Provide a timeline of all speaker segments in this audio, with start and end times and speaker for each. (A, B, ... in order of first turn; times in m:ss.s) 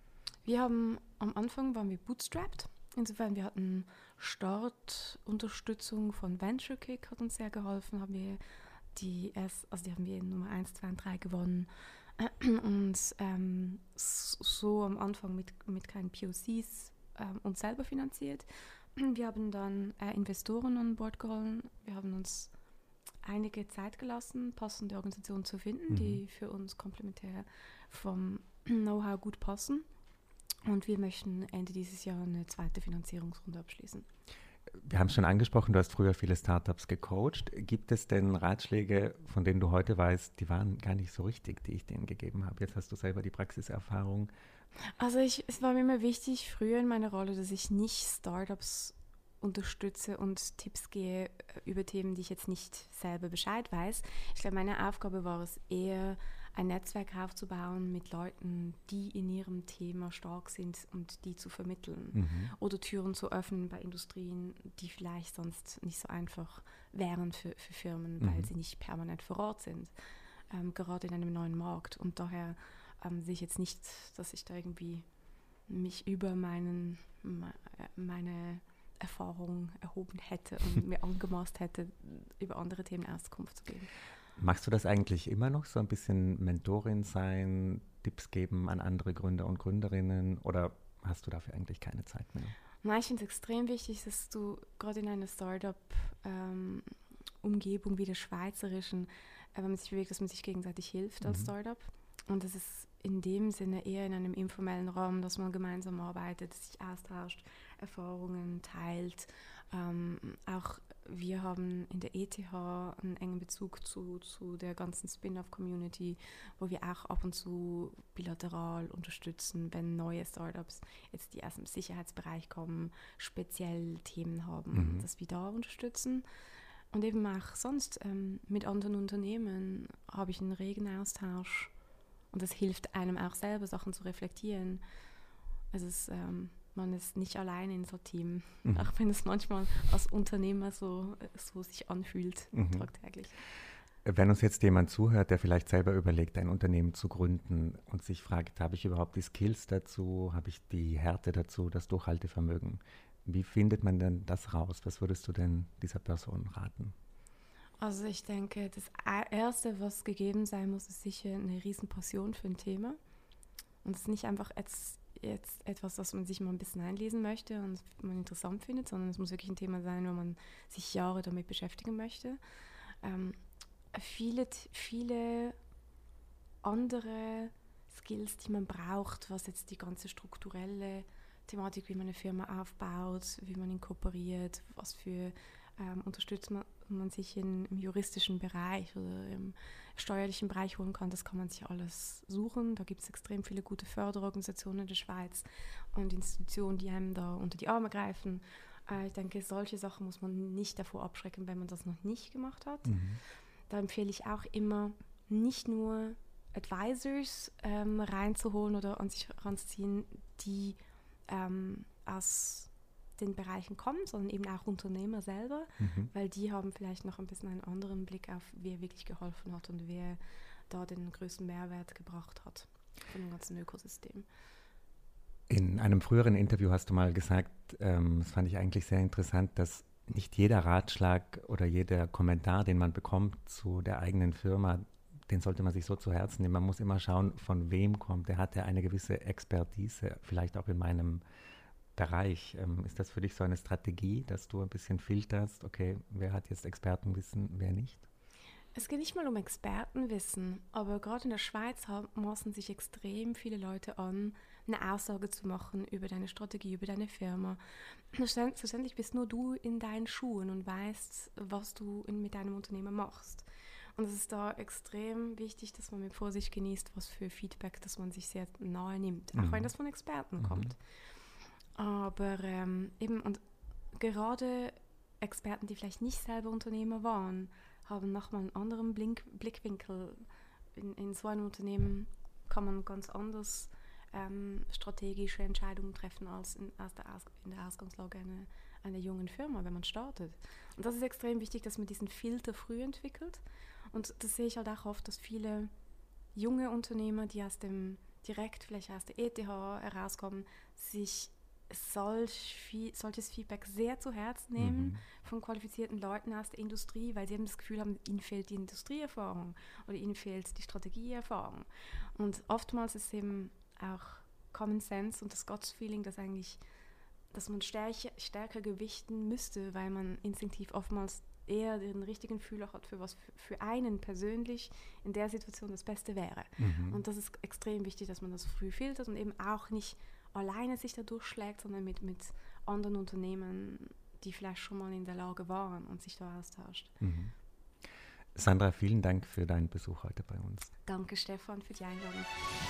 0:00.4-0:08.4 A
0:08.9-0:22.5 A
0:23.2-0:29.8 A
0:25.9-0:26.2 B
0:30.6-0:34.1 A
0:34.7-0:44.3 B
0:45.0-1:09.9 A
1:02.1-1:02.5 B
1:08.2-1:08.5 B
1:10.5-1:15.0 A
1:15.7-1:23.9 A
1:24.4-1:32.5 B
1:32.8-2:06.2 A
1:41.2-1:41.5 B
2:04.7-2:05.0 B
2:06.9-2:11.7 A
2:12.3-2:14.8 A
2:15.7-2:23.4 A
2:18.6-2:18.9 B
2:22.5-2:22.9 B
2:24.0-2:36.9 B
2:37.8-2:43.0 A
2:43.8-2:52.4 A
2:53.0-2:53.4 A
2:53.9-2:55.6 A
2:56.6-3:23.0 A
3:22.8-3:23.2 B
3:23.7-3:40.2 A
3:35.8-3:36.1 B
3:40.7-3:44.2 A
3:45.5-4:01.2 B
4:01.9-4:08.0 B
4:08.7-4:17.6 A
4:18.1-4:30.8 A
4:29.4-4:29.7 B
4:30.4-4:30.7 B
4:31.8-4:33.4 A
4:33.9-4:55.7 A
4:56.3-5:16.6 A
5:04.6-5:05.0 B
5:17.3-5:36.9 A
5:26.6-5:27.0 B
5:37.0-5:37.3 B
5:38.3-5:40.7 B
5:40.8-5:42.3 A